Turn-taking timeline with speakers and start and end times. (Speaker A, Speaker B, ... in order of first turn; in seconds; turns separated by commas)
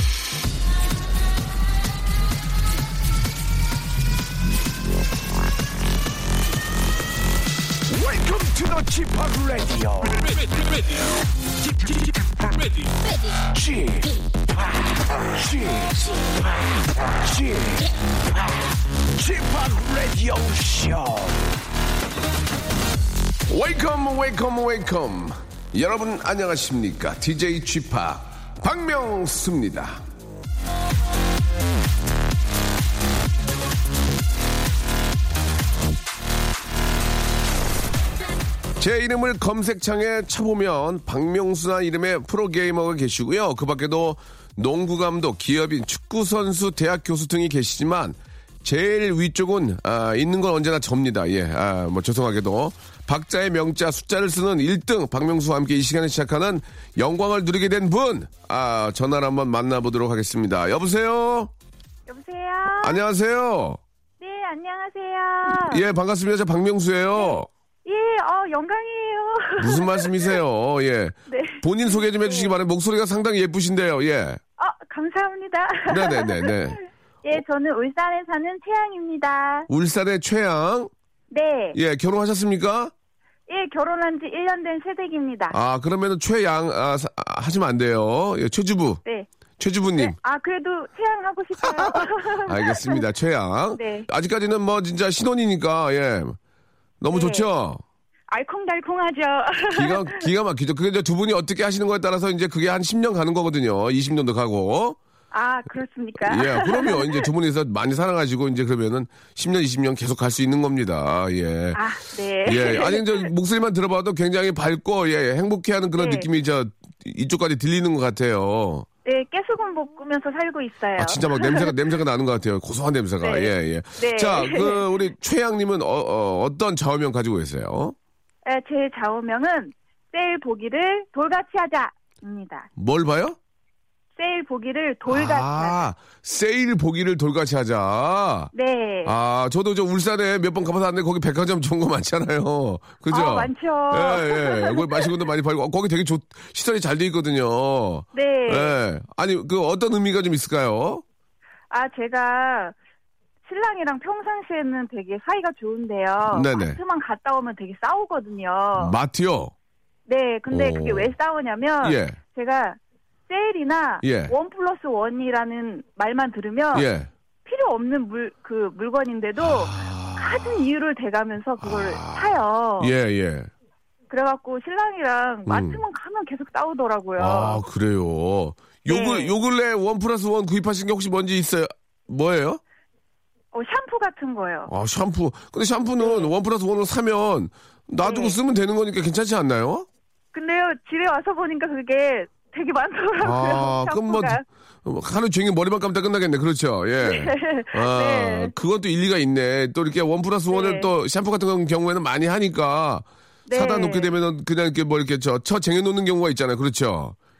Speaker A: 7.9-10.3, Speaker B: 13.5-14.1, Speaker B: 15.4-15.9, Speaker B: 17.2-17.8, Speaker A: 19.3-19.9, Speaker B: 19.9-21.2, Speaker B: 23.5-30.0, Speaker B: 38.8-61.5, Speaker C: 62.1-63.0, Speaker B: 62.8-63.8, Speaker C: 64.2-65.8, Speaker B: 65.5-67.5, Speaker C: 67.2-70.4, Speaker B: 69.6-74.4, Speaker C: 71.3-72.5, Speaker C: 74.6-79.7, Speaker B: 75.9-76.8, Speaker B: 79.7-80.9, Speaker C: 81.3-81.8, Speaker B: 81.7-82.9, Speaker C: 83.5-85.6, Speaker B: 85.5-89.0, Speaker B: 89.6-90.2, Speaker C: 90.0-93.0, Speaker B: 91.6-96.4, Speaker C: 93.7-94.1, Speaker B: 97.0-97.8, Speaker C: 97.1-97.5, Speaker C: 98.3-100.3, Speaker B: 99.7-105.0, Speaker C: 105.3-107.3, Speaker B: 106.2-111.8, Speaker C: 111.7-113.3, Speaker B: 112.4-118.8, Speaker C: 116.0-116.3, Speaker C: 119.0-121.7, Speaker B: 121.0-127.9, Speaker C: 123.2-125.0, Speaker C: 128.4-132.7, Speaker B: 132.8-133.4, Speaker C: 134.2-135.8, Speaker B: 135.1-138.5, Speaker C: 138.5-139.1, Speaker B: 139.0-151.0, Speaker C: 143.1-145.1, Speaker C: 148.1-148.8, Speaker C: 151.7-152.7, Speaker C: 153.4-159.0, Speaker B: 156.3-156.8, Speaker B: 158.7-159.5, Speaker C: 160.1-162.8, Speaker B: 160.5-161.1, Speaker B: 161.8-162.2, Speaker C: 163.3-166.9, Speaker B: 164.0-164.3, Speaker B: 166.7-167.1, Speaker C: 167.4-172.9, Speaker B: 169.4-170.6, Speaker B: 171.6-173.5, Speaker C: 174.1-177.6, Speaker B: 175.4-175.8, Speaker B: 177.2-182.6, Speaker C: 178.9-179.4, Speaker C: 183.5-184.7, Speaker B: 184.7-189.8, Speaker C: 186.0-186.3, Speaker C: 188.0-188.4, Speaker C: 190.3-194.4, Speaker B: 193.2-207.1, Speaker C: 197.0-198.5, Speaker C: 200.5-200.9, Speaker C: 203.5-204.1